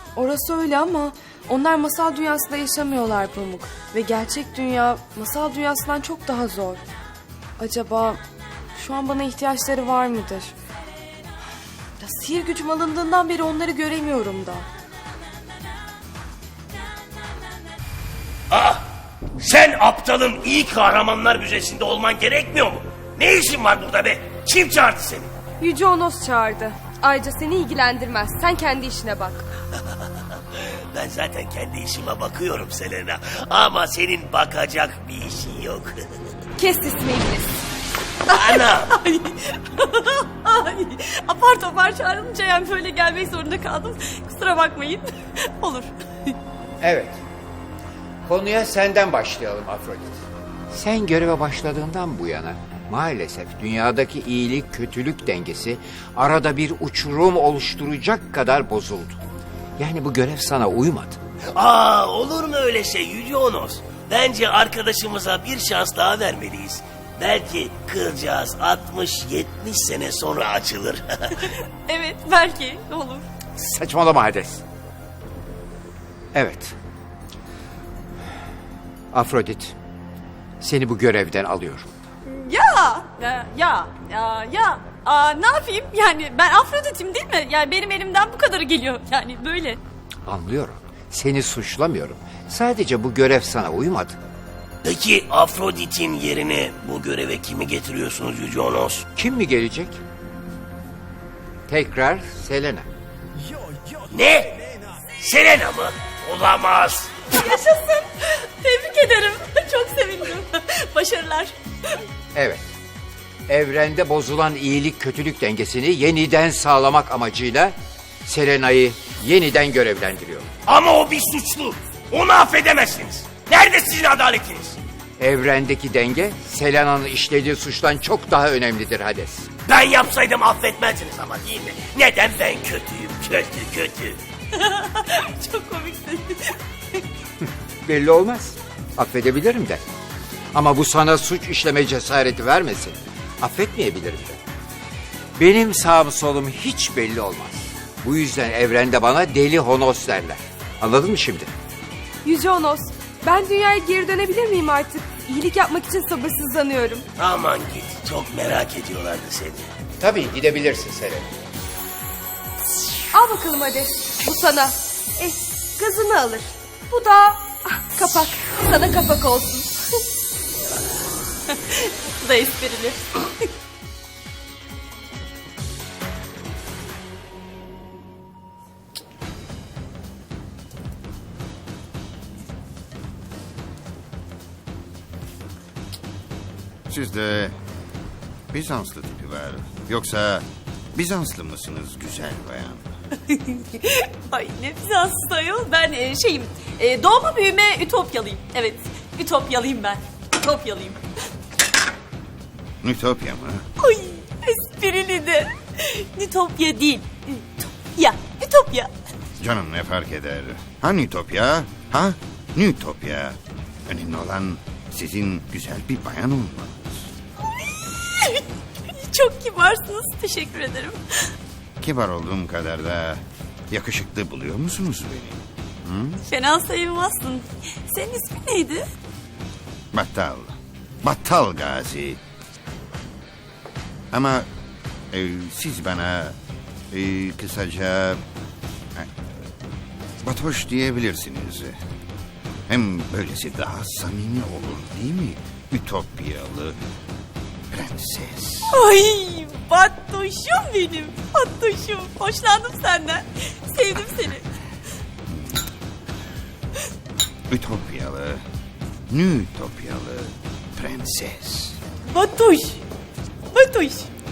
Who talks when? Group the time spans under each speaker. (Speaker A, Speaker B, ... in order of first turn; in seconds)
Speaker A: 0.1-6.8, 7.6-8.2, 8.7-10.5, 12.0-14.7, 25.6-29.4, 36.6-37.6, 152.2-157.0, 163.2-169.8
Speaker B: 18.5-18.8, 19.4-25.3, 30.9-35.9, 38.3-38.9, 61.5-71.3, 94.8-99.0, 104.1-104.5, 105.2-107.1, 120.6-124.8, 129.7-134.2, 157.2-159.7
Speaker C: 38.9-46.3, 71.8-73.2, 82.3-89.8, 107.3-111.5, 134.5-136.6, 171.5-173.2, 193.3-201.0, 203.8-208.9, 217.5-221.3, 226.3-228.9, 248.7-254.4, 262.1-262.8, 263.5-264.1
Speaker D: 46.8-47.2, 48.2-59.2, 59.8-61.2, 73.5-74.6, 76.3-76.7, 79.1-79.7, 80.6-81.9, 90.2-94.2, 99.1-100.0, 101.7-102.9, 112.3-112.6, 113.5-120.5, 125.2-129.5, 137.8-139.8, 140.5-144.4, 145.4-151.5, 160.0-161.3
Speaker E: 186.9-187.5, 188.5-192.9, 202.8-203.6, 209.4-217.1, 221.8-226.2, 229.9-232.2, 234.1-234.4, 235.1-236.3, 236.9-238.2, 240.2-241.7, 242.7-246.8, 247.7-248.8, 255.3-255.6, 257.5-258.4, 259.1-261.8